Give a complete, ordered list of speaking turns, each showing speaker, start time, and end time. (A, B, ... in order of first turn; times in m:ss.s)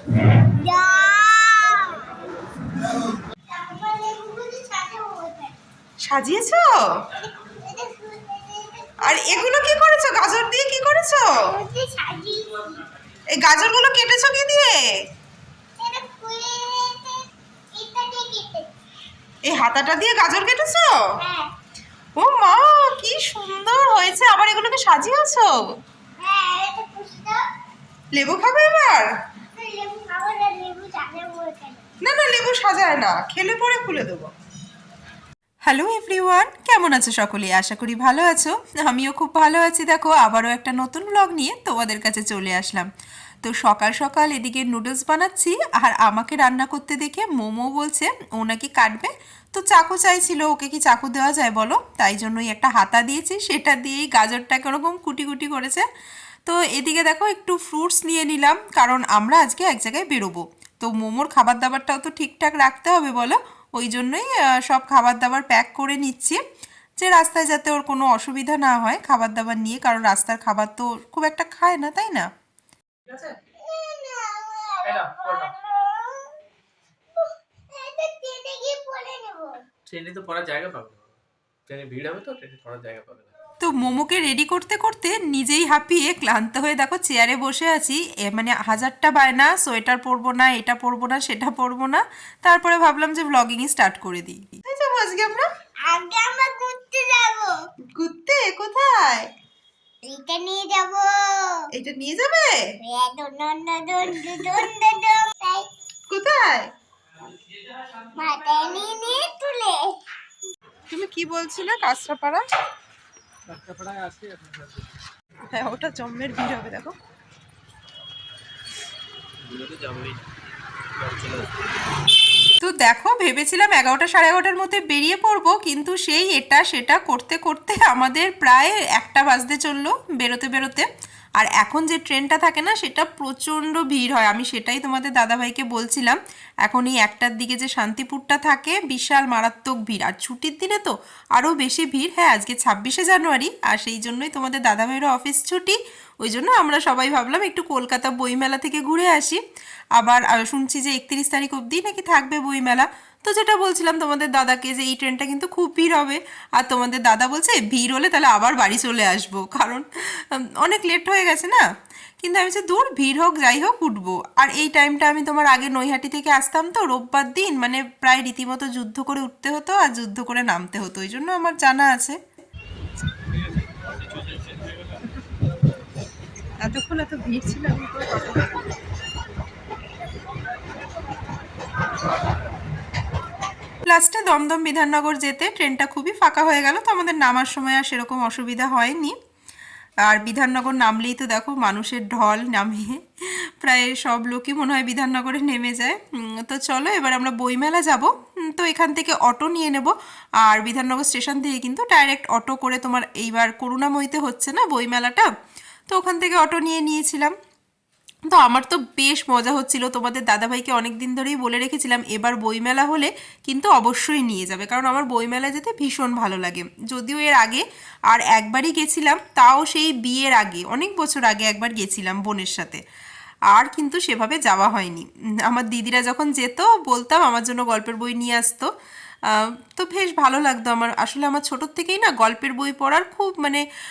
0:00.4-0:02.1 A
0:03.5-0:05.5 A
0:06.1-0:06.7 B
0:07.2-0:09.5 A
0:09.0-0:11.4 B
0:11.4-0:12.8 A
0:13.3-0:14.8 B
0:15.8-0:18.7 A
0:19.5-0:21.0 B
0:21.2-0:21.5 A
0:22.2-0:25.5 B
0:26.2-0:27.4 A
0:28.1-0:29.1 B
0:29.5-0:31.8 A
0:32.0-0:34.3 B
0:35.7-0:42.9 B
0:43.4-0:55.8 B
0:56.4-1:06.4 B
1:07.0-1:12.3 B
1:13.1-1:13.3 C
1:13.6-1:16.3 A
1:14.8-1:15.5 C
1:17.2-1:19.6 A
1:19.9-1:21.2 C
1:21.7-1:23.3 C
1:23.6-1:35.5 B
1:35.8-1:37.6 A
1:37.9-1:39.3 B
1:40.0-1:41.6 A
1:41.7-1:42.7 B
1:42.8-1:45.7 A
1:46.1-1:46.7 B
1:48.1-1:50.0 A
1:50.9-1:52.4 B
1:53.5-1:54.9 C
1:55.5-1:56.9 B
1:59.4-2:00.2 C
2:01.0-2:01.5 C
2:02.6-2:10.9 B
2:11.4-2:29.4 B
2:30.0-2:41.6 B
2:42.2-2:52.2 B
2:53.7-2:54.7 C
2:56.6-2:58.6 B
3:03.8-3:09.2 B
3:10.0-3:19.9 B
3:20.4-3:25.3 B
3:25.9-3:27.3 B
3:28.3-3:42.8 B
3:43.5-3:48.7 B
3:49.3-3:53.6 B